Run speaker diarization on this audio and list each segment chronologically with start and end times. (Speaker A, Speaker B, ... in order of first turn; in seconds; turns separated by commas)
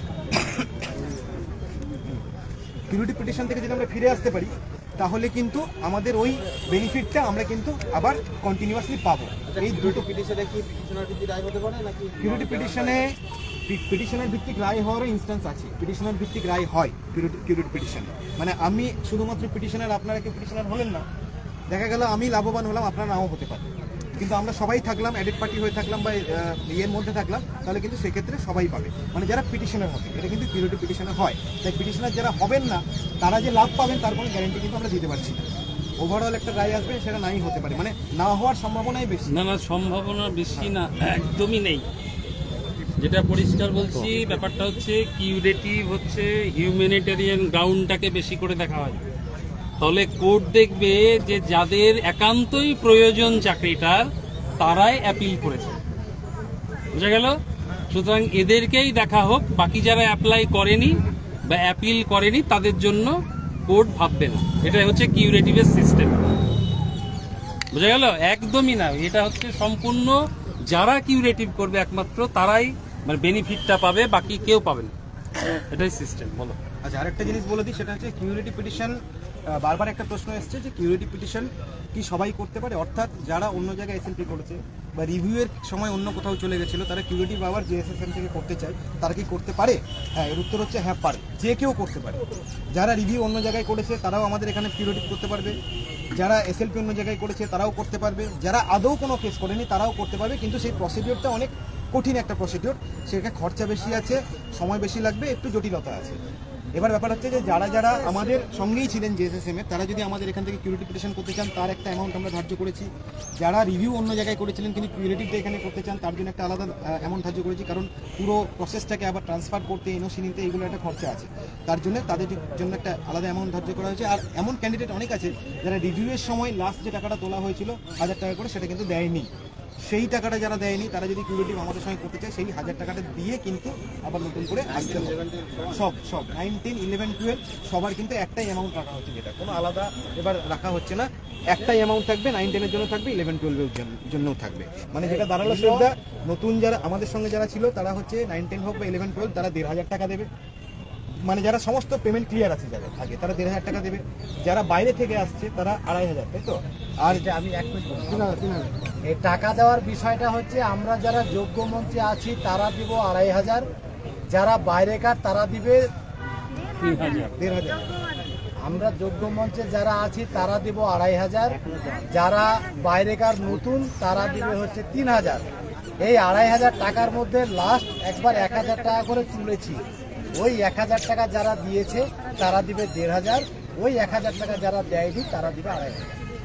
Speaker A: 0.3-0.7, Speaker A: 2.9-10.1, Speaker B: 9.5-13.0, Speaker A: 12.2-21.1, Speaker A: 21.7-35.5, Speaker A: 36.0-39.4, Speaker C: 39.3-41.9, Speaker C: 43.0-49.0, Speaker C: 49.8-55.8, Speaker C: 56.9-57.4, Speaker C: 57.9-63.2, Speaker C: 63.7-66.2, Speaker C: 67.7-74.9, Speaker C: 75.7-76.6, Speaker A: 76.8-92.2, Speaker A: 92.7-95.6, Speaker A: 96.1-106.2, Speaker A: 106.8-129.3, Speaker A: 129.8-150.3, Speaker B: 134.8-135.7, Speaker D: 145.0-145.9, Speaker A: 151.2-157.2, Speaker D: 157.1-158.5, Speaker B: 158.3-158.7, Speaker D: 159.1-163.7, Speaker D: 164.3-165.9, Speaker C: 166.8-167.3, Speaker A: 167.4-167.9, Speaker D: 168.6-171.6, Speaker D: 172.1-175.5, Speaker D: 176.0-186.2